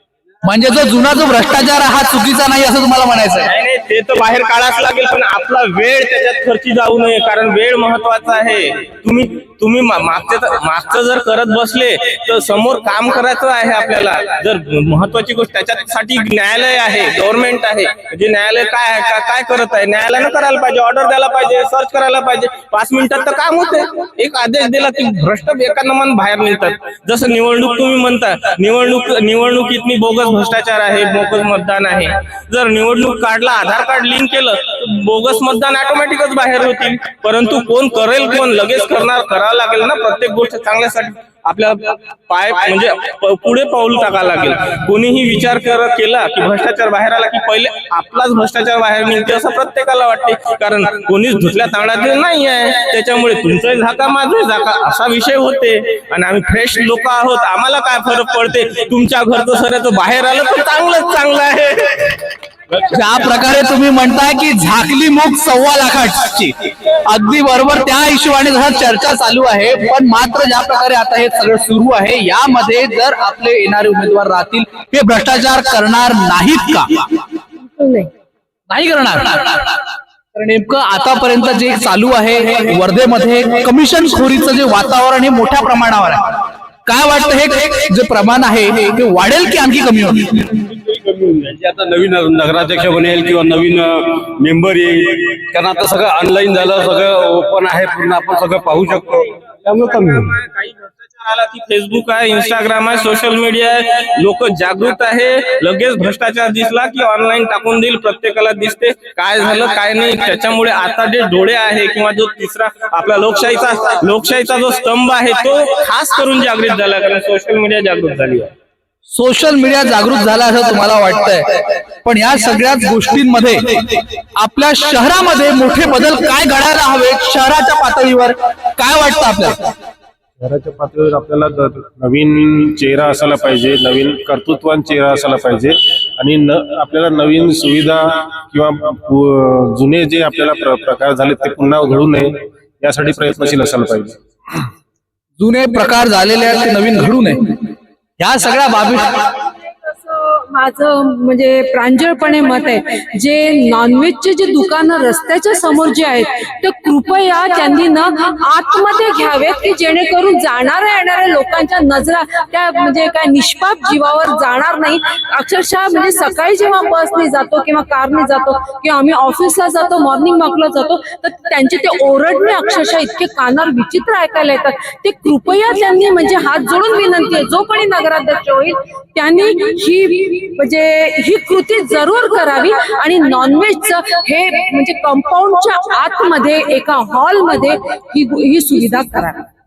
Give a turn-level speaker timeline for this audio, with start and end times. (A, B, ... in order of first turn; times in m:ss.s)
0:00.4-0:03.5 A
0:03.5-1:02.7 B
1:02.9-1:17.0 A
1:17.7-1:18.1 C
1:18.7-1:19.8 A
1:20.4-1:30.5 A
1:30.8-1:40.3 D
1:40.5-1:58.5 B
1:59.1-2:09.6 A
2:10.4-2:24.2 E
2:25.4-2:27.6 A
2:28.2-2:29.2 A
2:30.0-3:09.4 C